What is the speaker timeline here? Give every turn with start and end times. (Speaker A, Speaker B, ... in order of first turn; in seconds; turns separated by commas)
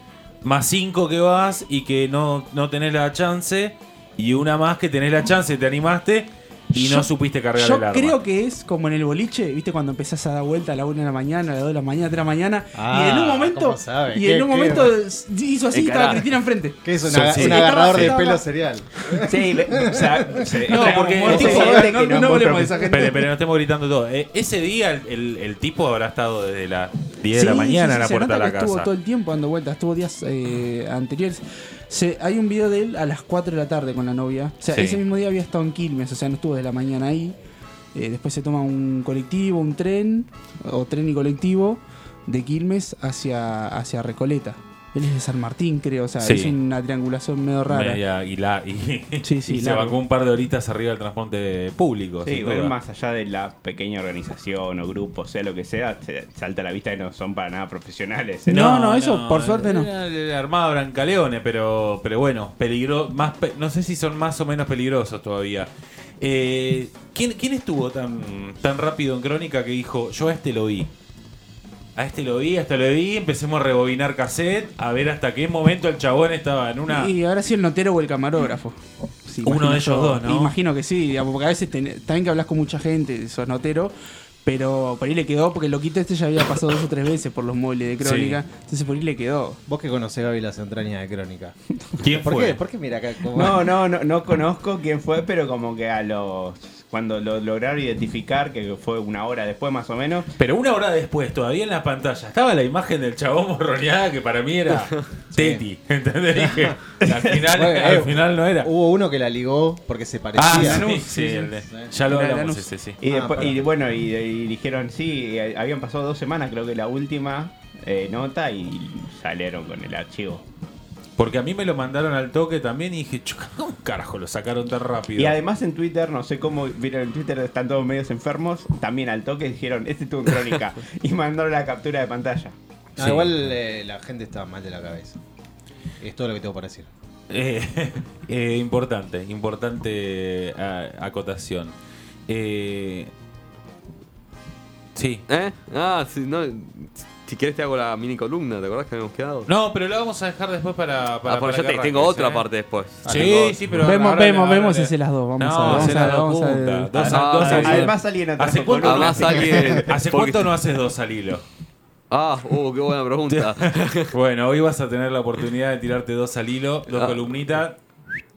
Speaker A: 0.4-8.2, Speaker B: 6.7-18.4, Speaker C: 12.7-14.9, Speaker D: 15.7-16.2, Speaker C: 16.8-20.7, Speaker A: 17.1-18.1, Speaker D: 19.2-23.0, Speaker B: 20.6-23.3, Speaker A: 20.7-21.9, Speaker C: 21.3-21.9, Speaker A: 22.9-28.9, Speaker B: 27.3-37.4, Speaker A: 34.7-35.0, Speaker B: 37.9-48.0, Speaker A: 46.2-46.5, Speaker A: 47.7-52.7, Speaker B: 49.2-50.0, Speaker D: 52.2-58.8, Speaker B: 58.5-59.9, Speaker A: 58.5-65.7, Speaker A: 66.2-70.9, Speaker A: 72.0-77.1, Speaker B: 76.9-89.6, Speaker A: 79.4-80.5, Speaker A: 88.0-88.4, Speaker C: 89.7-93.8, Speaker A: 92.0-92.6, Speaker D: 93.3-100.3, Speaker A: 100.4-108.7, Speaker C: 105.3-105.6, Speaker C: 106.3-106.8, Speaker C: 107.3-111.0, Speaker A: 110.3-113.6, Speaker B: 110.5-112.7, Speaker C: 111.7-111.9, Speaker D: 113.0-120.4, Speaker C: 113.1-113.6, Speaker A: 121.2-125.4, Speaker D: 125.2-132.5, Speaker A: 133.0-133.4, Speaker C: 133.0-135.2, Speaker C: 136.0-136.9, Speaker A: 137.3-141.7, Speaker A: 142.3-143.1, Speaker A: 144.9-145.2, Speaker E: 145.3-149.5, Speaker A: 149.5-152.4, Speaker E: 151.3-153.0, Speaker C: 153.0-153.8, Speaker A: 153.0-161.4, Speaker B: 153.8-157.9, Speaker E: 157.0-157.8, Speaker D: 157.1-160.0, Speaker E: 158.8-160.5, Speaker E: 162.1-164.1, Speaker A: 163.3-167.8, Speaker E: 166.9-167.2